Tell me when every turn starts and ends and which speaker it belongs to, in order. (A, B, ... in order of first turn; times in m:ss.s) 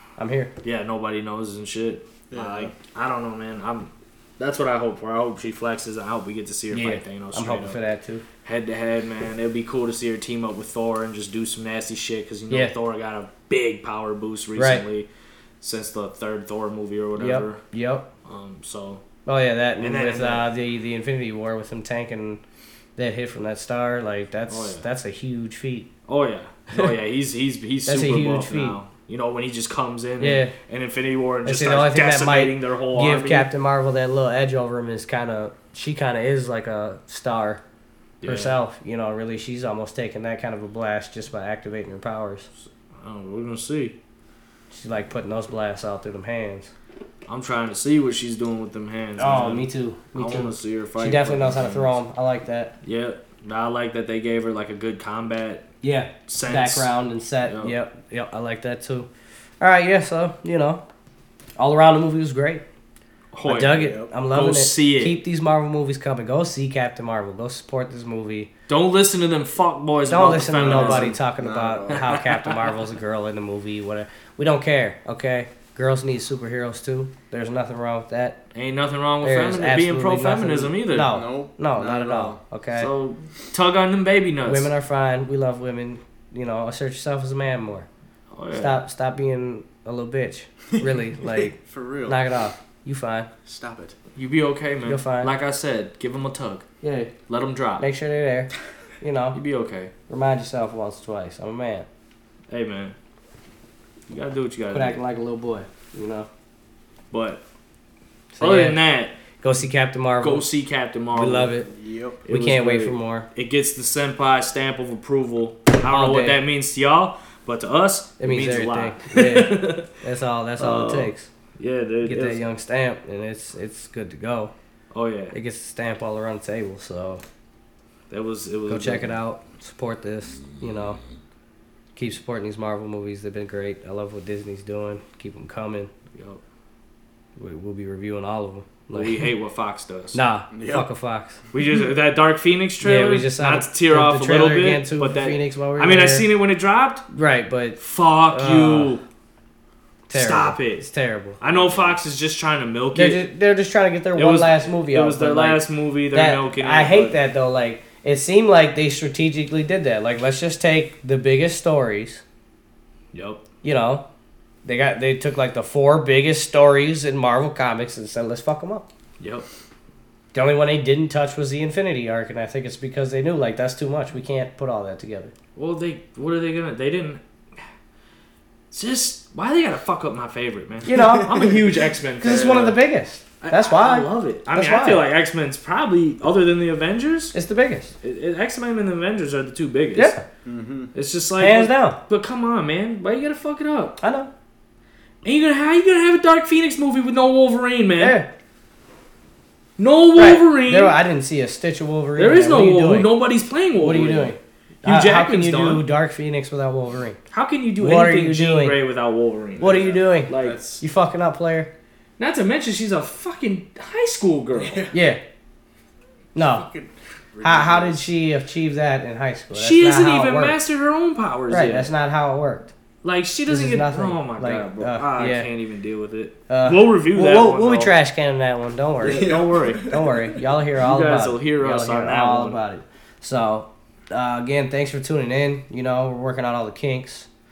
0:00.2-0:00.5 A
0:00.6-0:07.8 B
0:02.3-0:02.7 C
0:06.7-0:08.2 A
0:08.4-0:15.1 B
0:14.6-0:14.8 A
0:15.6-0:17.6 B
0:17.2-0:18.0 A
0:18.2-0:19.0 B
0:19.2-0:22.4 A
0:19.8-0:20.5 B
0:23.0-0:25.9 A
0:24.5-0:24.8 B
0:26.1-0:33.5 B
0:27.8-0:28.8 A
0:30.2-0:30.5 A
0:31.4-0:37.6 A
0:38.2-0:38.6 B
0:38.2-0:42.5 A
0:43.0-0:43.9 B
0:44.7-0:46.7 A
0:47.3-0:52.0 B
0:49.2-0:52.7 A
0:52.8-0:55.7 B
0:55.8-0:59.1 A
0:56.3-0:56.9 B
0:57.5-0:57.7 B
0:59.6-1:00.8 A
1:01.6-1:02.6 A
1:03.3-1:05.2 B
1:03.4-1:08.5 A
1:03.8-1:04.1 C
1:08.7-1:11.2 B
1:10.1-1:18.4 A
1:10.5-1:12.2 C
1:11.9-1:12.7 B
1:18.5-1:21.2 B
1:19.2-1:22.9 A
1:21.0-1:22.4 C
1:22.7-1:24.7 B
1:24.4-1:27.9 A
1:28.3-1:28.8 B
1:28.5-1:33.3 A
1:31.3-1:32.2 C
1:33.4-1:34.0 C
1:34.2-1:36.6 B
1:34.8-1:35.3 A
1:36.8-1:37.1 A
1:37.3-1:37.8 B
1:37.8-1:39.4 A
1:39.3-1:39.9 B
1:40.1-1:41.9 A
1:42.5-1:42.9 B
1:44.1-1:45.0 B
1:44.7-1:46.3 A
1:47.1-1:47.4 B
1:48.3-1:48.8 A
1:48.4-1:49.2 B
1:49.4-1:50.4 A
1:50.2-1:51.5 B
1:51.1-1:51.7 A
1:51.6-1:52.2 C
1:52.3-1:59.9 B
1:52.3-1:53.3 A
1:55.9-1:56.4 A
1:58.2-2:01.3 A
2:00.6-2:02.4 B
2:02.0-2:04.5 A
2:04.9-2:05.3 B
2:05.3-2:07.2 A
2:08.1-2:09.1 B
2:08.7-2:11.0 A
2:12.0-2:15.9 A
2:16.1-2:16.4 B
2:17.4-2:19.3 A
2:18.9-2:20.2 B
2:20.1-2:21.4 A
2:20.5-2:20.8 C
2:21.5-2:27.0 B
2:22.8-2:26.3 A
2:27.1-2:27.8 A
2:27.8-2:29.0 B
2:28.3-2:28.9 A
2:30.1-2:31.8 A
2:30.1-2:30.8 B
2:31.4-2:33.2 B
2:32.9-2:42.2 A
2:34.1-2:37.2 B
2:43.1-2:43.4 B
2:43.6-2:44.0 A
2:44.6-2:48.8 A
2:49.2-2:49.4 B
2:50.3-2:55.3 A
2:55.6-2:57.2 B
2:58.7-3:02.8 B
3:00.8-3:01.5 A
3:02.2-3:05.0 A
3:03.4-3:07.3 B
3:07.3-3:07.9 A
3:08.0-3:10.1 B
3:09.9-3:10.2 A
3:10.4-3:10.9 C
3:10.9-3:14.0 B
3:11.4-3:12.0 A
3:14.0-3:14.3 A
3:15.2-3:18.2 B
3:18.0-3:18.3 A
3:19.8-3:21.0 B
3:20.2-3:23.1 A
3:22.2-3:25.8 B
3:23.8-3:27.2 A
3:27.3-3:30.6 B
3:27.8-3:28.8 A
3:29.6-3:31.7 A
3:29.6-3:30.8 C
3:32.2-3:34.9 B
3:34.6-3:34.9 C
3:34.9-3:35.2 A
3:36.3-3:36.7 A
3:36.4-3:38.1 C
3:37.4-3:40.6 A
3:39.5-3:41.9 B
3:41.5-3:42.7 A
3:43.0-3:47.9 B
3:43.5-3:45.5 A
3:46.5-3:57.3 A
3:49.0-3:50.4 C
3:49.0-3:50.0 B
3:50.8-3:52.6 B